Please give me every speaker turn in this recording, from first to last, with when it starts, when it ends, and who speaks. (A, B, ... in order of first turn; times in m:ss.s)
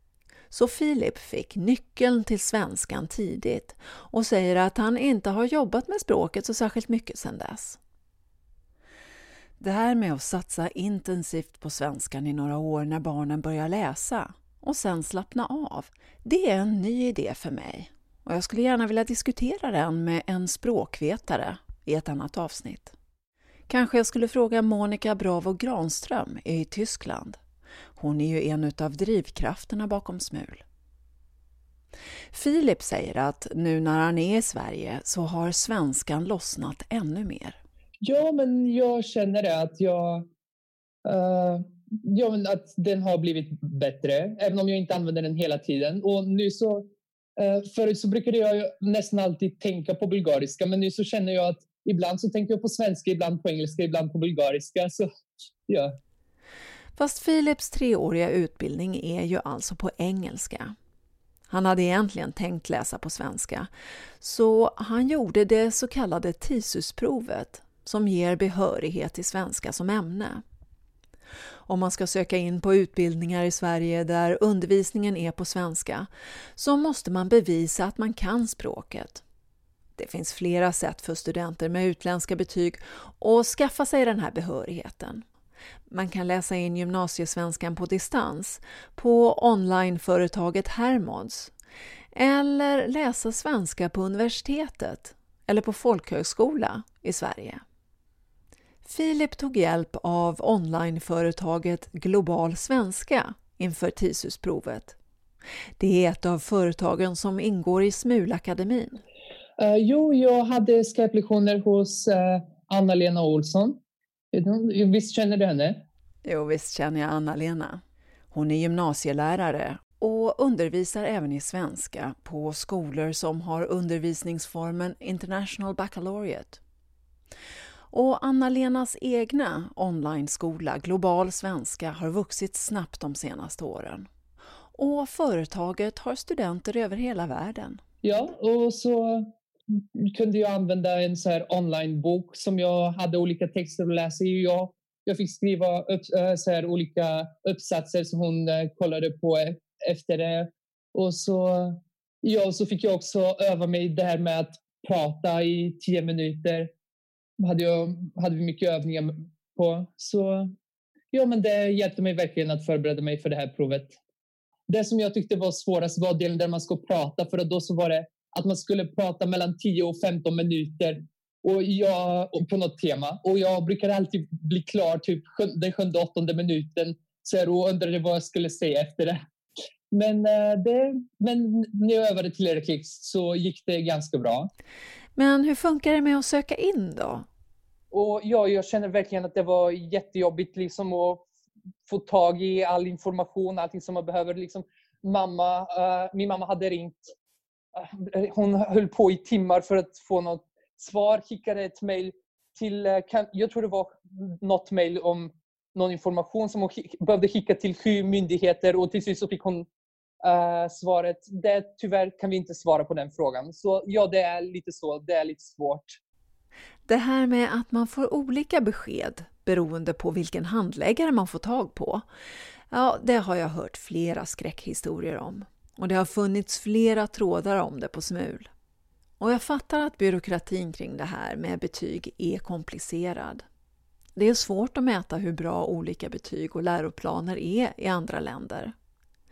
0:00.5-0:07.8 A
0:09.6-0:22.9 A
0:23.7-0:27.4 A
0:28.0-0:30.6 A
0:32.3-0:37.6 A
0:38.0-0:40.3 B
0:41.0-0:55.1 B
0:55.7-0:56.0 B
0:57.0-1:00.7 A
1:01.5-1:03.7 A
1:04.2-1:10.4 A
1:11.7-1:19.2 A
1:20.0-1:25.2 A
1:25.9-1:31.5 A
1:32.1-1:37.6 A
1:38.8-1:45.0 A
1:45.8-1:49.0 A
1:49.6-1:53.8 B
1:54.3-1:55.8 B
1:56.2-1:57.8 A
1:58.3-2:06.6 A
2:07.9-2:14.1 A
2:14.7-2:17.8 A
2:18.0-2:36.7 B
2:37.4-2:40.5 B
2:41.1-2:44.0 B
2:44.7-2:59.2 B
2:59.9-3:04.5 B
3:05.2-3:07.2 A
3:07.9-3:11.2 B
3:11.8-3:17.1 B
3:17.7-3:29.7 B
3:30.2-3:36.0 B
3:36.9-3:42.0 A
3:42.7-3:48.5 A
3:49.2-3:53.4 A
3:54.2-3:58.7 A